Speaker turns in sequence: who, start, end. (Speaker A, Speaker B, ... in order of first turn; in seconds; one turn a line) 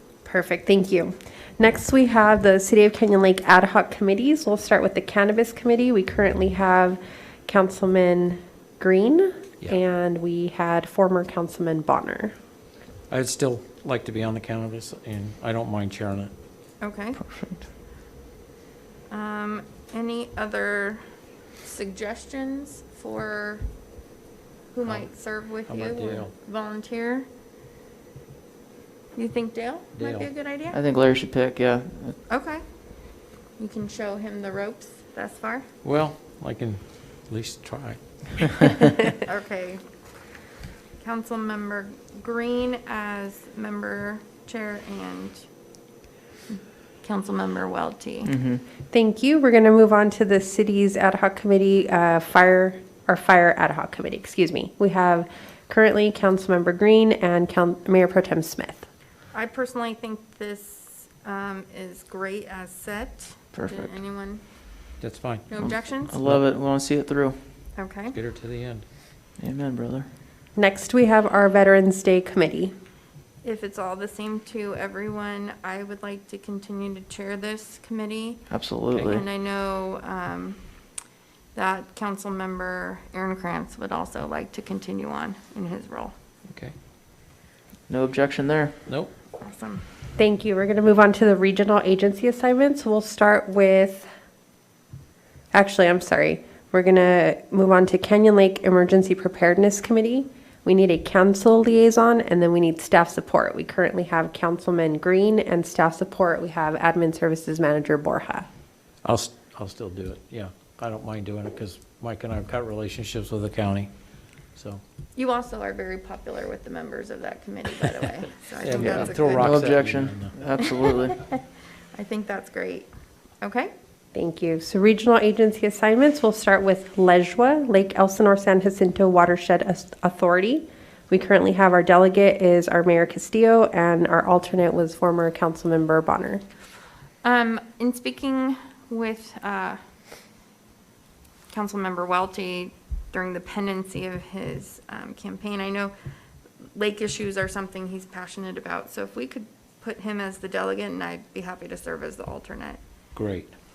Speaker A: 0.2-12.3
Speaker B: 13.1-16.3
Speaker C: 16.8-17.2
Speaker D: 17.2-17.6
Speaker C: 19.1-21.0
Speaker C: 21.6-23.6
Speaker C: 24.7-27.3
Speaker B: 25.7-26.3
Speaker C: 29.1-30.8
Speaker B: 29.9-30.3
Speaker D: 30.7-32.2
Speaker C: 32.3-32.6
Speaker C: 33.6-35.6
Speaker B: 35.8-38.8
Speaker C: 39.2-39.8
Speaker C: 41.0-45.5
Speaker C: 46.5-48.3
Speaker D: 48.2-48.6
Speaker A: 48.9-58.9
Speaker C: 59.3-64.4
Speaker D: 63.5-63.9
Speaker B: 65.0-65.4
Speaker C: 65.5-66.2
Speaker D: 65.6-67.3
Speaker C: 67.8-68.2
Speaker B: 68.1-68.8
Speaker D: 69.4-70.0
Speaker A: 70.5-72.7
Speaker C: 73.4-80.6
Speaker D: 78.5-79.2
Speaker B: 78.9-79.2
Speaker C: 81.5-86.1
Speaker B: 86.5-86.7
Speaker D: 87.9-88.7
Speaker B: 88.8-89.1
Speaker C: 89.4-89.8
Speaker A: 90.2-94.1
Speaker A: 95.5-108.5
Speaker B: 109.0-113.9
Speaker B: 114.5-114.8
Speaker C: 115.2-119.7
Speaker B: 118.6-120.3
Speaker D: 118.8-121.2
Speaker C: 121.9-122.9
Speaker C: 123.4-123.7
Speaker A: 124.1-136.4
Speaker C: 137.2-139.8
Speaker C: 141.5-145.9
Speaker C: 146.7-152.8
Speaker B: 153.1-153.5